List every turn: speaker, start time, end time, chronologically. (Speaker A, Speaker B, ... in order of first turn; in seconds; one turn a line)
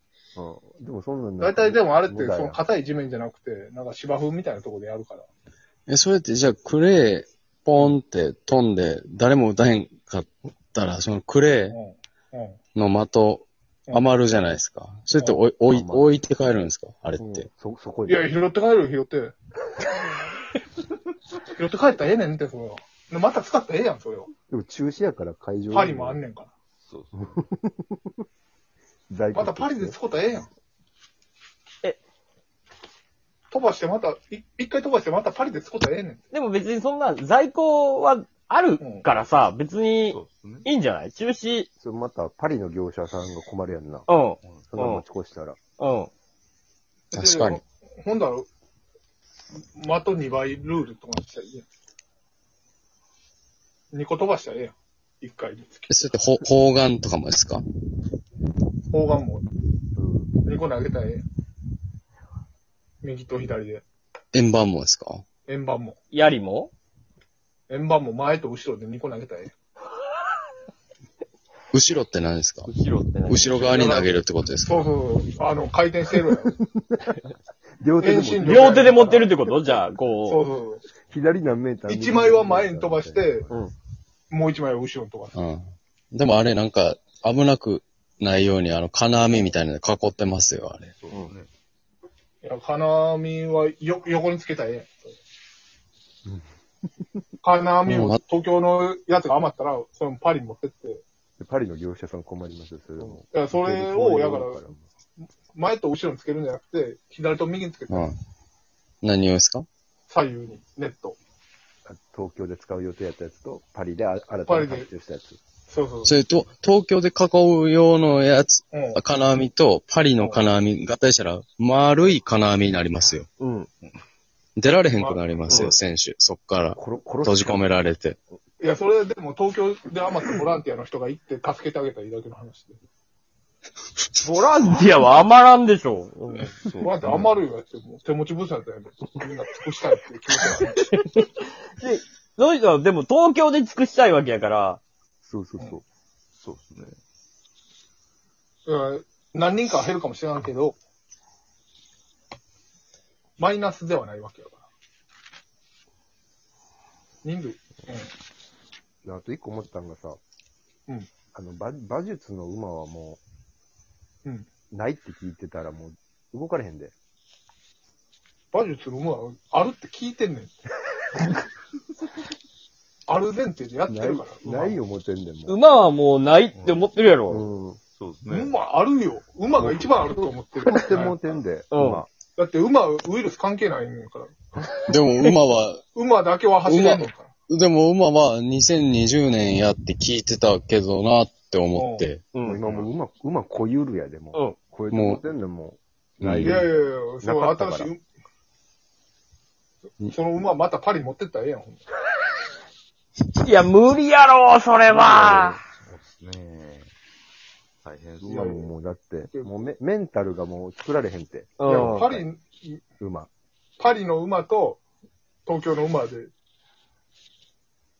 Speaker A: 0.4-2.6
Speaker B: 1.4-5.3
Speaker C: 5.9-11.8
Speaker B: 11.7-12.6
Speaker C: 12.8-17.5
Speaker B: 15.2-15.4
Speaker A: 15.7-16.2
Speaker A: 17.2-18.3
Speaker B: 18.1-19.3
Speaker B: 21.6-24.3
Speaker A: 24.5-26.2
Speaker B: 25.7-26.5
Speaker D: 26.8-27.4
Speaker A: 27.2-28.1
Speaker A: 29.1-30.0
Speaker B: 29.4-30.5
Speaker B: 33.5-36.2
Speaker E: 36.3-41.7
Speaker B: 38.8-39.1
Speaker D: 40.1-40.7
Speaker A: 41.8-44.1
Speaker E: 44.1-45.0
Speaker D: 44.4-44.7
Speaker A: 44.7-45.6
Speaker E: 45.8-46.1
Speaker B: 47.1-48.5
Speaker C: 47.1-47.6
Speaker B: 49.6-51.7
Speaker B: 53.9-56.1
Speaker C: 55.9-57.6
Speaker B: 58.9-59.5
Speaker A: 60.0-60.4
Speaker B: 60.4-61.2
Speaker B: 63.0-63.8
Speaker C: 64.3-65.2
Speaker B: 65.5-66.0
Speaker E: 66.1-66.7
Speaker B: 67.7-69.5
Speaker C: 71.7-72.7
Speaker E: 72.7-73.8
Speaker C: 73.2-74.9
Speaker B: 73.6-76.5
Speaker A: 76.6-77.2
Speaker A: 77.8-78.9
Speaker B: 78.0-80.8
Speaker E: 78.4-80.4
Speaker A: 81.1-83.7
Speaker B: 81.9-83.5
Speaker B: 84.3-85.3
Speaker C: 85.3-90.9
Speaker D: 91.0-91.5
Speaker B: 92.4-95.1
Speaker B: 97.4-101.0
Speaker C: 97.9-98.2
Speaker A: 101.4-104.9
Speaker B: 103.3-104.6
Speaker B: 105.5-108.1
Speaker C: 107.9-108.2
Speaker C: 109.0-109.7
Speaker B: 110.1-111.2
Speaker A: 111.9-115.4
Speaker B: 114.5-114.9
Speaker B: 115.7-116.2
Speaker C: 116.0-123.3
Speaker B: 118.7-119.0
Speaker B: 120.2-120.5
Speaker E: 123.4-123.7
Speaker C: 124.6-128.2
Speaker B: 125.0-125.7
Speaker A: 126.8-127.6
Speaker B: 128.6-132.8
Speaker E: 134.2-136.5
Speaker D: 136.6-137.3
Speaker B: 136.8-140.9
Speaker E: 140.9-144.8
Speaker A: 145.2-145.8
Speaker D: 146.3-147.0
Speaker B: 148.7-150.8
Speaker B: 153.4-154.6
Speaker B: 157.2-158.1
Speaker A: 159.1-160.2
Speaker A: 161.3-163.2
Speaker A: 164.7-166.9
Speaker B: 168.5-170.5
Speaker B: 173.1-174.8
Speaker A: 173.9-175.6
Speaker E: 175.5-177.4
Speaker D: 176.5-176.9
Speaker A: 177.3-177.8
Speaker D: 178.0-178.5
Speaker B: 178.3-181.2
Speaker A: 179.6-182.1
Speaker E: 181.7-182.0
Speaker B: 182.4-184.3
Speaker C: 184.9-185.9
Speaker B: 185.9-187.3
Speaker C: 186.6-192.2
Speaker B: 191.7-192.1
Speaker E: 192.3-192.6
Speaker A: 192.4-196.7
Speaker D: 192.6-192.9
Speaker C: 194.9-195.2
Speaker C: 196.2-196.6
Speaker B: 196.4-198.0
Speaker A: 197.2-197.9
Speaker B: 200.1-201.8
Speaker E: 203.4-205.6
Speaker A: 204.9-205.6
Speaker D: 205.7-206.9
Speaker D: 207.8-208.5
Speaker A: 208.2-212.2
Speaker E: 211.6-212.1
Speaker B: 211.6-212.8
Speaker A: 213.0-213.3
Speaker B: 213.8-214.8
Speaker B: 215.5-216.3